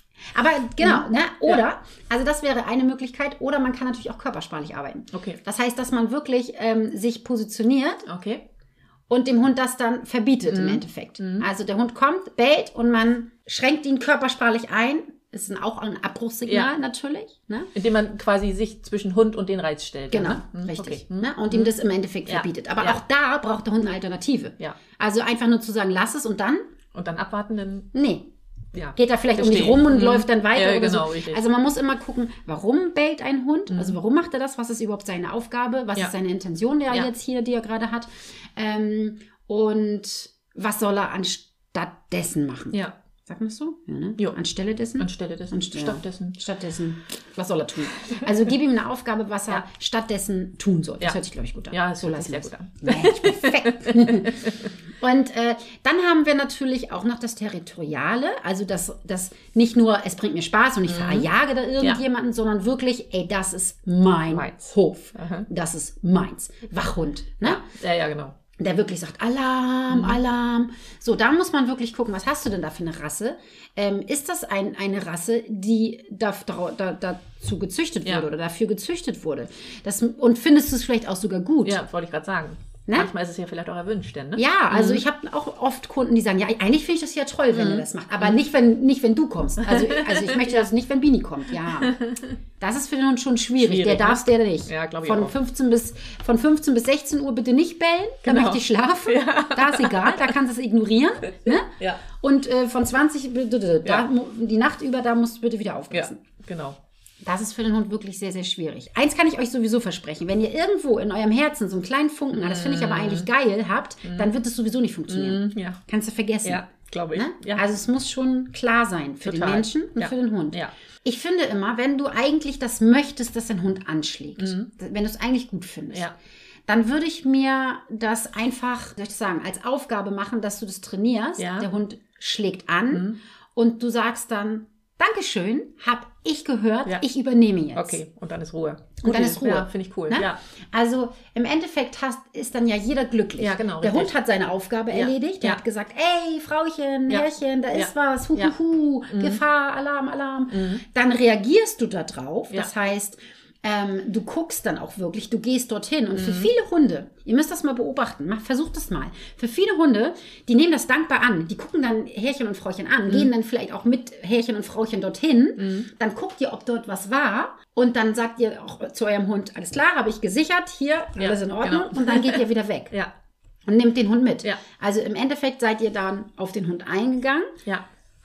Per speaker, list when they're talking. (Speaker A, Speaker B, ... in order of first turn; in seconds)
Speaker A: 0.3-8.1, 9.1-17.7, 20.1-26.6, 27.9-28.3, 28.9-67.6, 68.6-81.8, 84.3-92.0, 92.6-106.2, 107.2-126.1, 126.7-138.0, 139.0-172.9, 173.7-177.5
Speaker B: 0.8-1.6, 5.1-5.4, 8.1-8.4, 10.4-11.5, 16.4-16.7, 17.7-21.7, 22.2-23.0, 26.9-27.9, 28.7-31.4, 33.7-34.0, 45.0-46.4, 51.7-54.7, 60.9-61.3, 64.3-65.5, 67.4-68.3, 69.9-70.2, 81.6-85.0, 87.5-88.3, 89.6-90.7, 91.6-92.4, 93.6-95.3, 98.2-100.4, 101.4-102.0, 105.9-106.8, 112.3-113.3, 114.0-114.3, 115.1-115.8, 116.4-117.6, 119.2-120.7, 124.4-124.7, 131.4-131.7, 132.9-133.2, 137.7-140.4, 143.4-144.1, 144.9-145.6, 147.1-148.5, 149.1-149.4, 150.5-150.8, 156.1-156.5, 165.6-165.9, 171.2-173.1